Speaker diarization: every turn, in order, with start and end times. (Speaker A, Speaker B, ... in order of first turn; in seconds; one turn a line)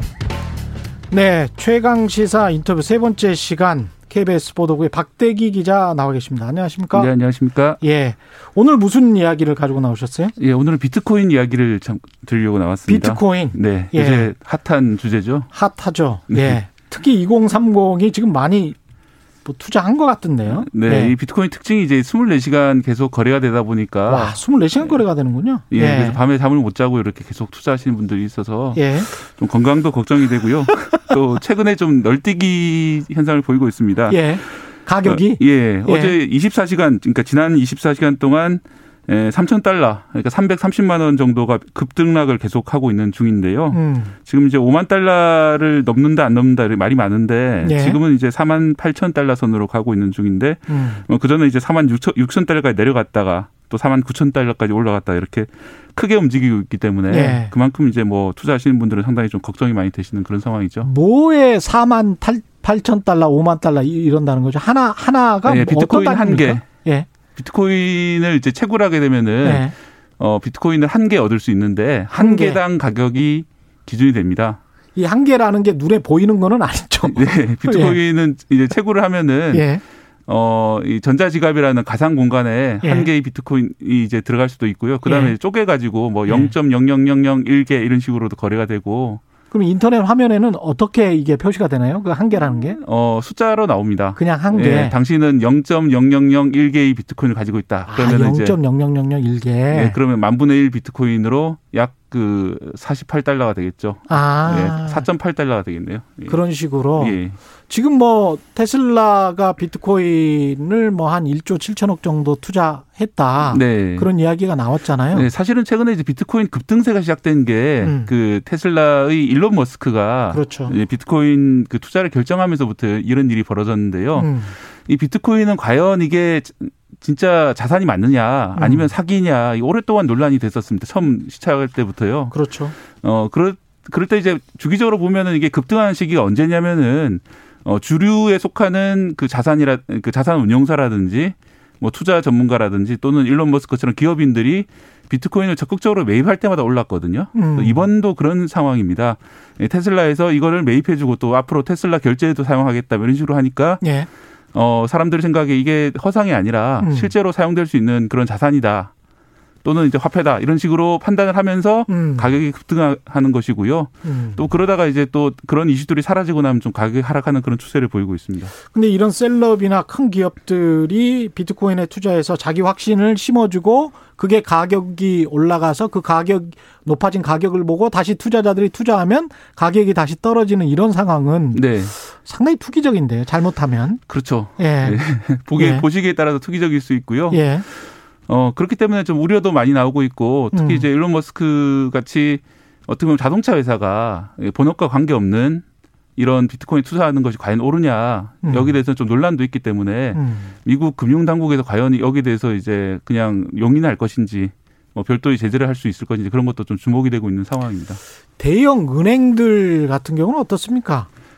Speaker A: 1.1-7.1
Speaker B: 6.9-7.8
Speaker A: 7.8-10.4
Speaker B: 10.4-15.5
Speaker A: 12.9-14.3
Speaker A: 15.5-18.8
Speaker B: 16.3-16.6
Speaker A: 19.4-21.1
Speaker B: 20.5-25.0
Speaker A: 24.1-26.2
Speaker B: 25.7-34.4
Speaker A: 28.8-29.1
Speaker A: 34.1-36.2
Speaker B: 35.0-60.9
Speaker A: 43.7-44.1
Speaker A: 47.6-48.0
Speaker A: 50.7-51.0
Speaker A: 57.1-57.5
Speaker A: 60.8-67.1
Speaker B: 65.5-66.6
Speaker B: 67.4-74.6
Speaker A: 69.4-69.7
Speaker A: 72.1-72.6
Speaker A: 75.0-78.0
Speaker B: 77.0-79.7
Speaker A: 79.5-79.8
Speaker B: 80.3-89.2
Speaker A: 82.8-83.1
Speaker A: 85.0-85.3
Speaker A: 86.3-86.5
Speaker A: 89.5-92.8
Speaker B: 92.4-98.6
Speaker A: 94.2-95.0
Speaker A: 97.9-100.0
Speaker B: 99.7-106.4
Speaker A: 104.1-105.1
Speaker A: 106.3-115.3
Speaker B: 107.0-107.4
Speaker B: 113.4-114.1
Speaker B: 115.1-132.3
Speaker A: 117.8-118.1
Speaker A: 120.3-120.8
Speaker A: 124.2-124.5
Speaker A: 128.6-128.9
Speaker A: 132.3-132.8
Speaker B: 133.0-153.8
Speaker A: 147.3-147.8
Speaker A: 153.8-154.1
Speaker B: 154.5-158.9
Speaker A: 156.8-157.1
Speaker B: 159.6-168.5
Speaker A: 161.9-162.3
Speaker A: 164.0-164.5
Speaker A: 168.7-184.0
Speaker B: 181.5-181.9
Speaker B: 184.1-195.6
Speaker A: 184.6-185.0
Speaker A: 185.6-185.9
Speaker A: 187.3-187.7
Speaker A: 190.5-190.8
Speaker B: 196.2-208.0
Speaker A: 198.4-198.8
Speaker A: 200.1-200.5
Speaker A: 208.4-211.1